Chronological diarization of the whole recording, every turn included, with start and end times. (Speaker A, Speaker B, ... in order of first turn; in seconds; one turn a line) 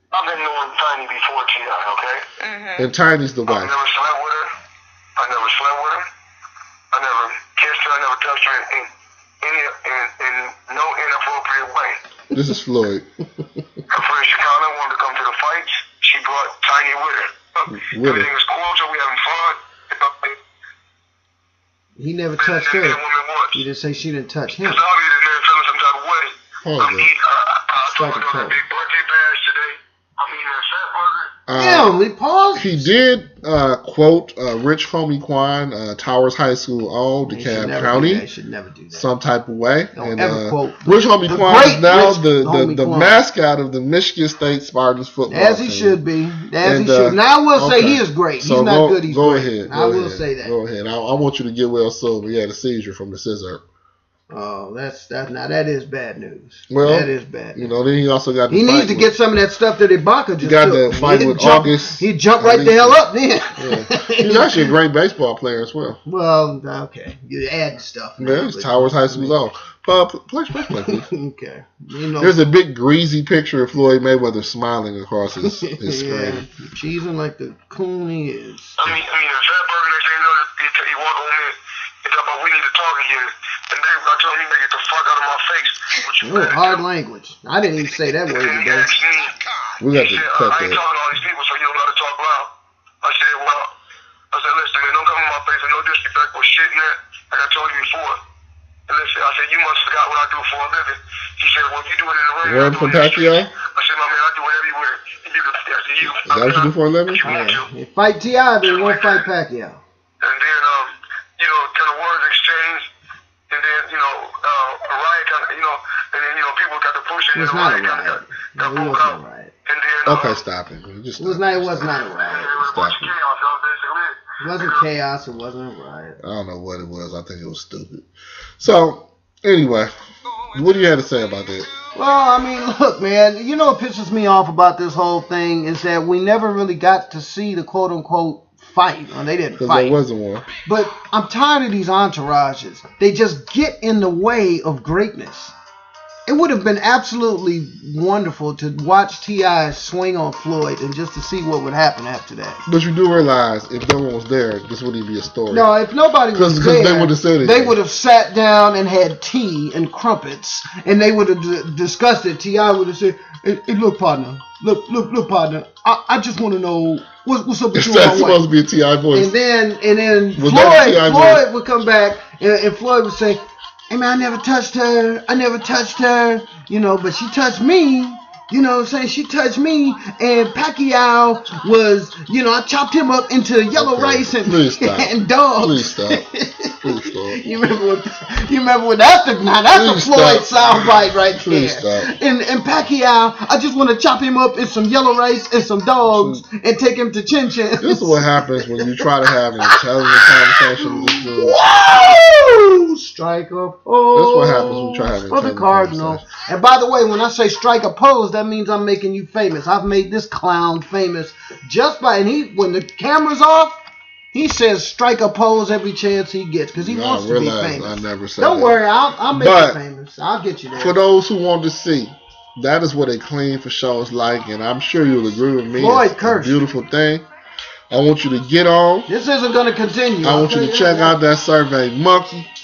Speaker A: 0.1-2.8
Speaker B: 2.8-3.7
Speaker A: 3.5-4.5
Speaker A: 5.2-6.0
Speaker A: 6.9-8.9
Speaker A: 9.4-12.0
Speaker B: 12.3-13.1
Speaker A: 13.9-20.4
Speaker B: 17.7-18.3
Speaker C: 22.0-23.0
Speaker A: 22.4-23.6
Speaker C: 23.5-24.8
Speaker A: 24.6-31.3
Speaker B: 26.6-27.1
Speaker C: 27.9-28.6
Speaker B: 31.5-32.0
Speaker C: 31.5-32.9
Speaker B: 32.5-38.2
Speaker C: 37.2-39.0
Speaker B: 38.9-46.0
Speaker C: 39.9-43.2
Speaker C: 45.3-50.5
Speaker B: 46.6-53.6
Speaker C: 54.3-57.7
Speaker B: 56.7-59.1
Speaker C: 58.5-64.7
Speaker B: 60.4-63.0
Speaker B: 63.6-66.0
Speaker C: 66.0-69.3
Speaker B: 68.2-71.1
Speaker C: 70.6-72.3
Speaker B: 72.2-76.5
Speaker C: 75.4-78.8
Speaker A: 78.8-86.8
Speaker C: 86.2-89.0
Speaker A: 88.3-92.5
Speaker B: 89.8-90.8
Speaker A: 93.0-93.7
Speaker A: 94.3-98.2
Speaker A: 98.9-107.7
Speaker B: 102.4-103.5
Speaker B: 106.0-107.2
Speaker C: 107.3-109.8
Speaker A: 108.6-109.2
Speaker A: 110.2-112.9
Speaker A: 113.5-120.4
Speaker C: 117.3-119.5
Speaker B: 120.0-123.1
Speaker C: 121.2-122.6
Speaker A: 122.2-124.8
Speaker C: 124.4-126.2
Speaker B: 126.2-128.1
Speaker B: 128.6-129.9
Speaker B: 130.5-131.7
Speaker C: 131.9-139.9
Speaker B: 139.6-140.5
Speaker C: 140.7-145.5
Speaker C: 146.3-152.6
Speaker B: 152.7-155.7
Speaker C: 155.5-168.4
Speaker B: 156.3-157.8
Speaker B: 167.7-169.3
Speaker C: 169.1-199.1
Speaker B: 170.4-171.4
Speaker B: 183.7-186.2
Speaker B: 186.8-187.4
Speaker B: 189.7-192.1
Speaker B: 196.1-196.4
Speaker B: 197.8-201.6
Speaker C: 199.6-213.8
Speaker B: 204.1-206.2
Speaker C: 214.3-220.9
Speaker B: 216.8-218.8
Speaker B: 219.3-219.8
Speaker B: 220.7-227.2
Speaker C: 225.8-226.6
Speaker B: 227.9-229.1
Speaker C: 229.1-231.2
Speaker B: 230.2-232.5